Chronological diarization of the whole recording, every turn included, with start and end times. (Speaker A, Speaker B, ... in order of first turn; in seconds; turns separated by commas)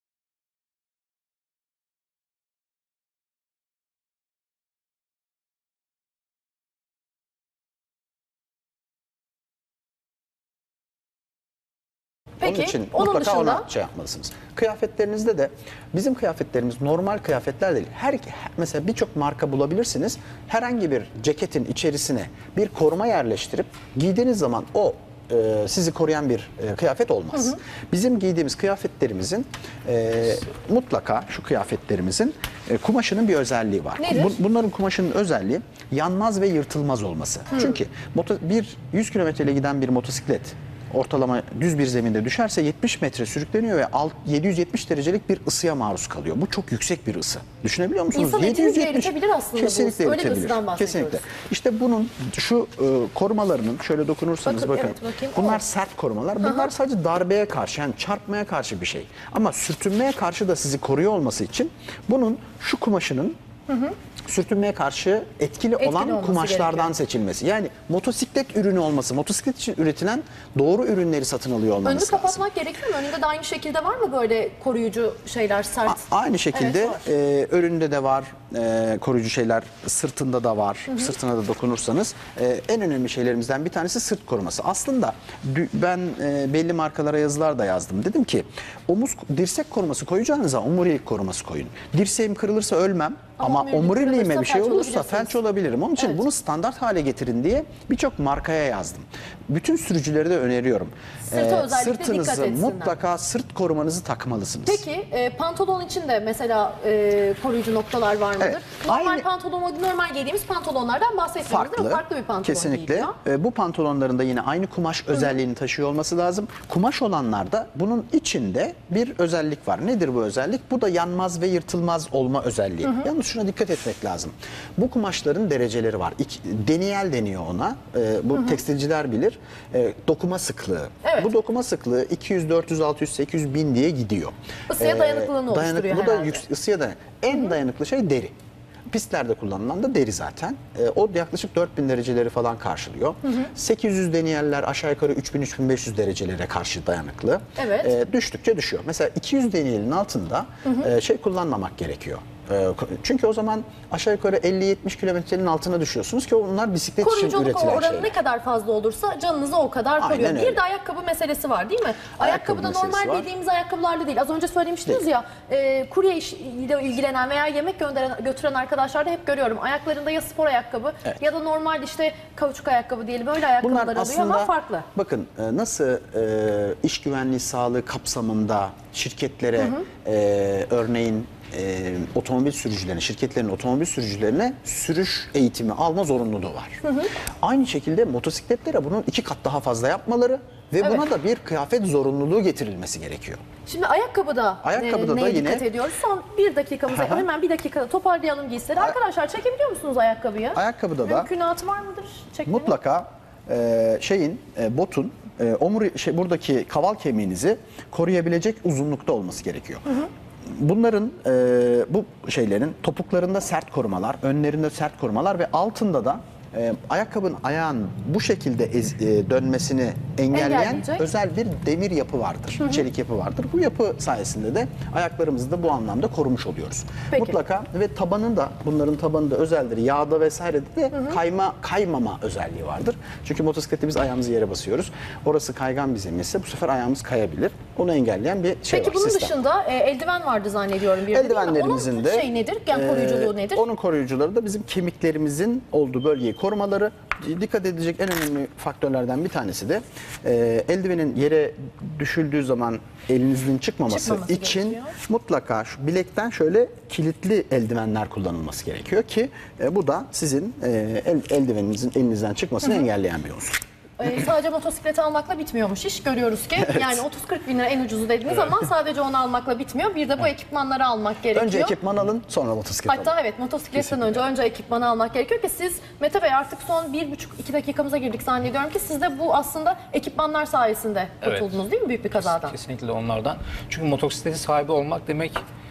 Speaker A: 12.4-13.7, Speaker B: 12.4-63.4, Speaker A: 34.0-34.4, Speaker A: 48.1-51.2, Speaker A: 54.5-55.6, Speaker A: 63.7-63.9, Speaker B: 64.3-72.4, Speaker A: 65.8-66.9, Speaker A: 71.8-77.0, Speaker B: 75.9-104.8, Speaker A: 93.4-95.4, Speaker A: 96.0-96.2, Speaker A: 101.3-103.0, Speaker A: 104.7-113.1, Speaker B: 108.4-109.3, Speaker B: 111.4-138.3, Speaker A: 131.0-131.3, Speaker A: 134.7-136.4, Speaker B: 138.9-158.2, Speaker A: 147.6-147.9, Speaker A: 150.7-150.9, Speaker A: 157.0-174.9, Speaker B: 160.0-160.6, Speaker B: 162.2-163.3, Speaker B: 173.6-186.8, Speaker A: 179.6-179.9, Speaker A: 186.8-187.1, Speaker B: 187.4-193.4, Speaker A: 193.7-202.7, Speaker B: 194.6-195.7, Speaker B: 196.9-197.3, Speaker B: 200.5-201.3, Speaker B: 202.5-209.9, Speaker B: 210.5-239.3, Speaker A: 220.3-221.1, Speaker A: 227.1-227.4, Speaker A: 230.9-231.2, Speaker A: 238.7-243.6, Speaker B: 241.1-263.6, Speaker A: 253.9-254.9, Speaker A: 264.0-271.8, Speaker B: 266.6-267.0, Speaker B: 271.3-273.1, Speaker A: 272.9-282.6, Speaker B: 273.7-274.2, Speaker C: 281.2-281.5, Speaker C: 282.1-285.4